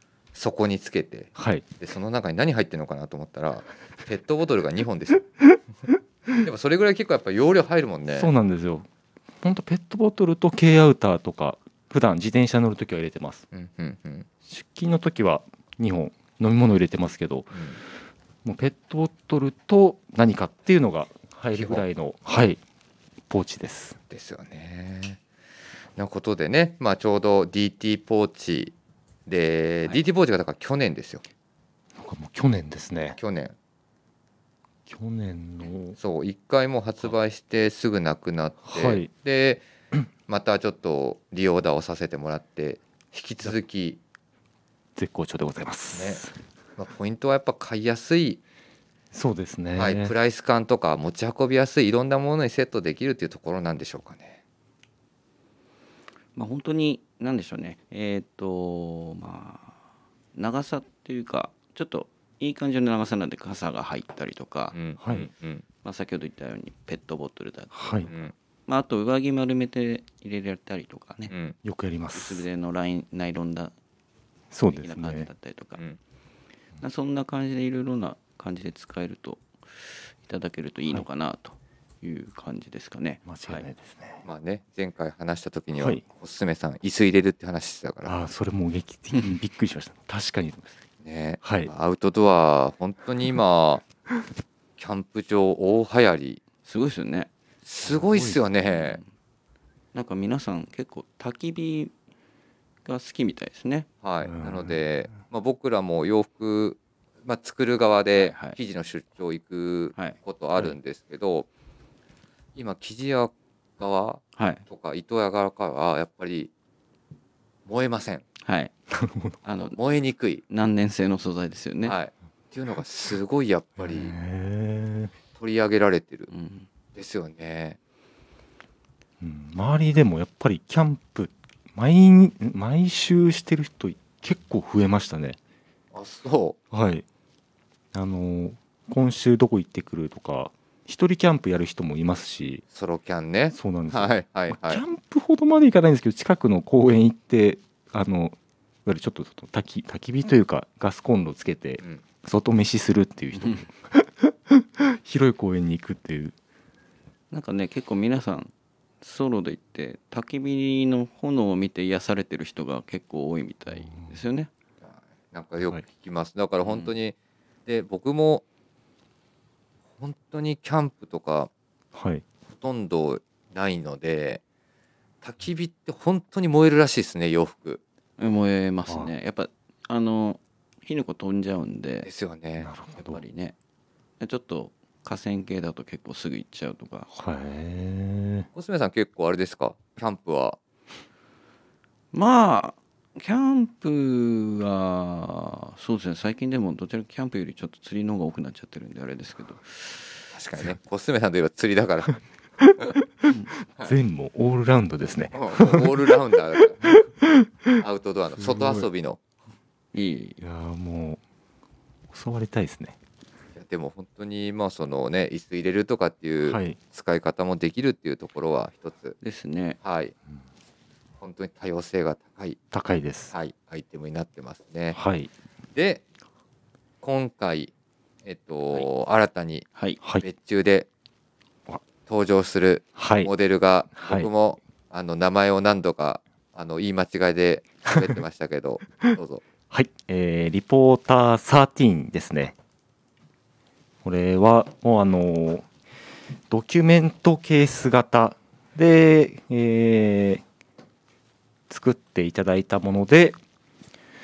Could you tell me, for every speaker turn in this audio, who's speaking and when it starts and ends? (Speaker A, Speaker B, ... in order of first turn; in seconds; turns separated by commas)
Speaker A: 0.3-5.3, Speaker B: 1.4-1.6, Speaker A: 6.4-8.3, Speaker B: 8.1-8.9, Speaker B: 9.4-13.4, Speaker A: 13.5-14.3, Speaker B: 14.4-17.6, Speaker B: 18.4-22.6, Speaker A: 21.5-21.8, Speaker B: 23.3-24.0, Speaker A: 24.1-25.2, Speaker A: 26.0-28.7, Speaker A: 29.3-31.2, Speaker B: 32.0-33.2, Speaker A: 33.2-33.5, Speaker B: 34.9-36.0, Speaker A: 36.0-39.7, Speaker B: 38.7-39.1, Speaker A: 40.3-44.0, Speaker B: 45.0-46.3, Speaker A: 45.9-46.2, Speaker A: 46.8-48.4, Speaker B: 49.1-50.1, Speaker A: 49.8-54.4, Speaker C: 56.4-59.8, Speaker C: 60.4-64.8, Speaker A: 64.7-65.6, Speaker B: 65.0-65.3, Speaker C: 65.8-68.1, Speaker B: 67.7-68.1, Speaker A: 68.1-68.3, Speaker C: 68.7-71.3, Speaker A: 71.3-71.6, Speaker B: 71.6-72.5, Speaker C: 72.2-73.7, Speaker B: 74.5-75.3, Speaker C: 74.7-75.8, Speaker C: 76.8-83.7, Speaker B: 83.3-84.2, Speaker A: 84.2-88.1, Speaker B: 85.8-86.0, Speaker B: 88.0-90.8, Speaker A: 91.0-93.8, Speaker B: 91.4-91.7, Speaker A: 94.8-96.4, Speaker C: 96.7-97.3, Speaker A: 97.6-99.0, Speaker B: 97.9-98.4, Speaker C: 98.7-99.0, Speaker C: 99.9-101.9, Speaker C: 102.8-103.9, Speaker A: 104.0-111.5, Speaker B: 104.2-104.8, Speaker C: 108.2-108.6, Speaker A: 112.6-116.5, Speaker C: 114.4-114.6, Speaker A: 117.7-118.2, Speaker C: 118.4-118.7, Speaker B: 118.9-119.4, Speaker C: 119.5-119.8, Speaker A: 119.6-120.4, Speaker C: 120.5-122.0, Speaker A: 121.8-124.1, Speaker B: 123.8-125.1, Speaker A: 125.3-126.3, Speaker C: 126.3-126.7, Speaker A: 127.0-127.8, Speaker B: 129.2-135.4, Speaker A: 135.9-136.6, Speaker B: 136.7-137.1, Speaker B: 137.9-142.6, Speaker A: 142.7-144.8, Speaker B: 143.5-156.3, Speaker C: 153.4-153.7, Speaker C: 157.3-164.5, Speaker B: 163.7-164.2, Speaker A: 164.8-167.2, Speaker C: 166.6-166.9, Speaker A: 167.7-168.4, Speaker A: 170.0-171.5, Speaker B: 171.9-172.2, Speaker A: 172.5-174.4, Speaker A: 175.2-177.8, Speaker C: 178.2-182.1, Speaker A: 182.1-182.7, Speaker B: 182.6-183.2, Speaker C: 182.9-183.6, Speaker C: 184.2-187.1, Speaker B: 187.1-188.5, Speaker A: 188.6-190.6, Speaker C: 192.1-200.2, Speaker A: 200.3-202.2, Speaker B: 203.2-205.9, Speaker A: 205.3-206.9, Speaker B: 207.2-207.8, Speaker A: 207.8-209.2, Speaker B: 208.4-208.9, Speaker C: 209.9-210.4, Speaker B: 210.4-211.2, Speaker B: 212.1-213.0, Speaker A: 213.6-219.2, Speaker B: 216.5-216.8, Speaker C: 219.2-219.8, Speaker A: 219.8-220.1, Speaker A: 221.2-222.6, Speaker B: 222.7-223.3, Speaker A: 223.3-225.0, Speaker B: 224.9-225.3, Speaker A: 225.8-226.0, Speaker A: 227.0-227.7, Speaker A: 228.2-229.7, Speaker A: 230.2-230.9, Speaker A: 232.1-239.4, Speaker B: 233.0-233.3, Speaker B: 233.9-234.3, Speaker B: 239.7-242.6, Speaker B: 244.0-245.7, Speaker B: 246.5-250.4, Speaker B: 251.7-253.4